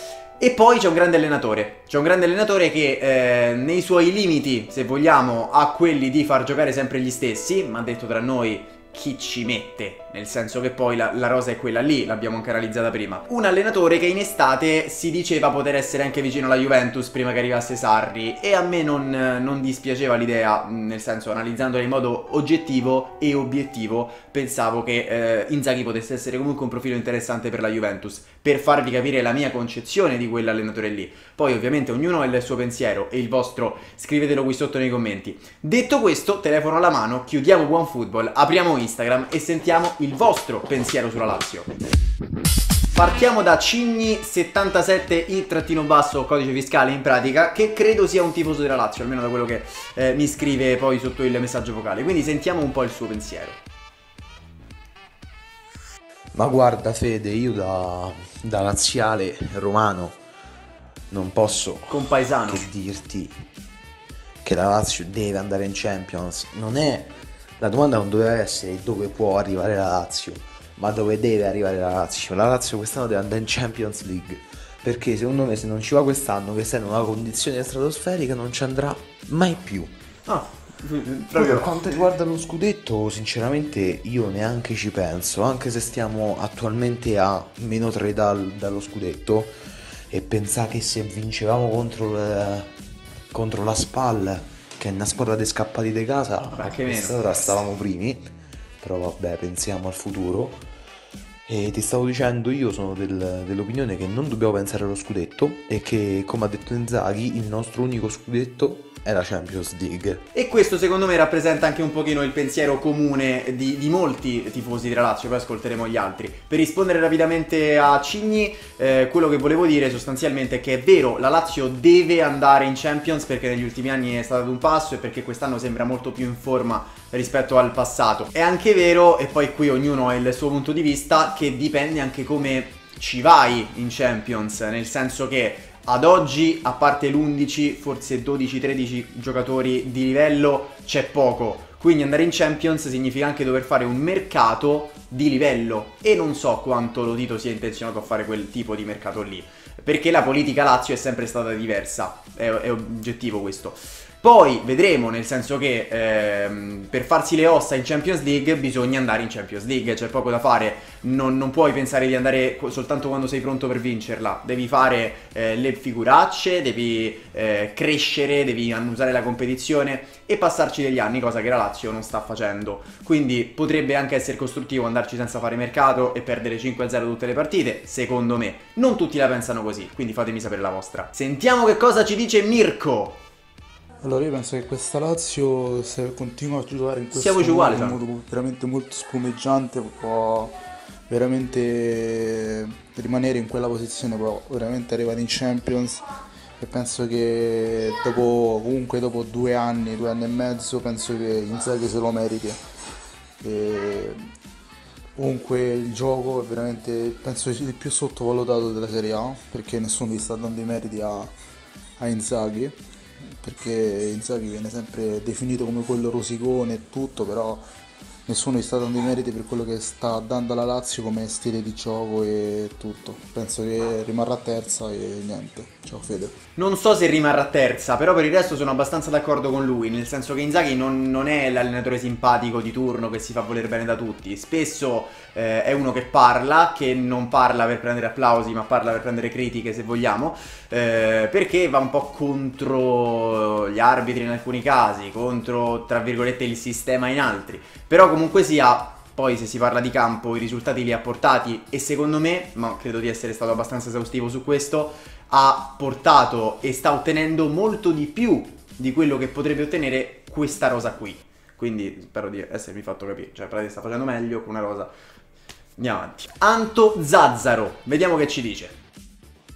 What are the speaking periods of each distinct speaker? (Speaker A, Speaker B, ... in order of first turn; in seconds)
Speaker A: 0.4-41.7, 42.9-53.6, 61.9-62.7, 80.3-81.8, 96.5-97.4, 110.3-183.2, 187.1-188.0, 226.6-264.9, 265.8-268.8
Speaker B: 56.3-60.2, 61.1-63.4, 64.4-79.9, 81.4-89.5, 90.1-92.7, 93.3-100.6, 101.5-110.2
Speaker C: 184.0-190.6, 191.1-196.0, 196.6-202.6, 203.4-204.2, 205.2-211.3, 212.0-212.8, 213.4-217.6, 218.3-226.3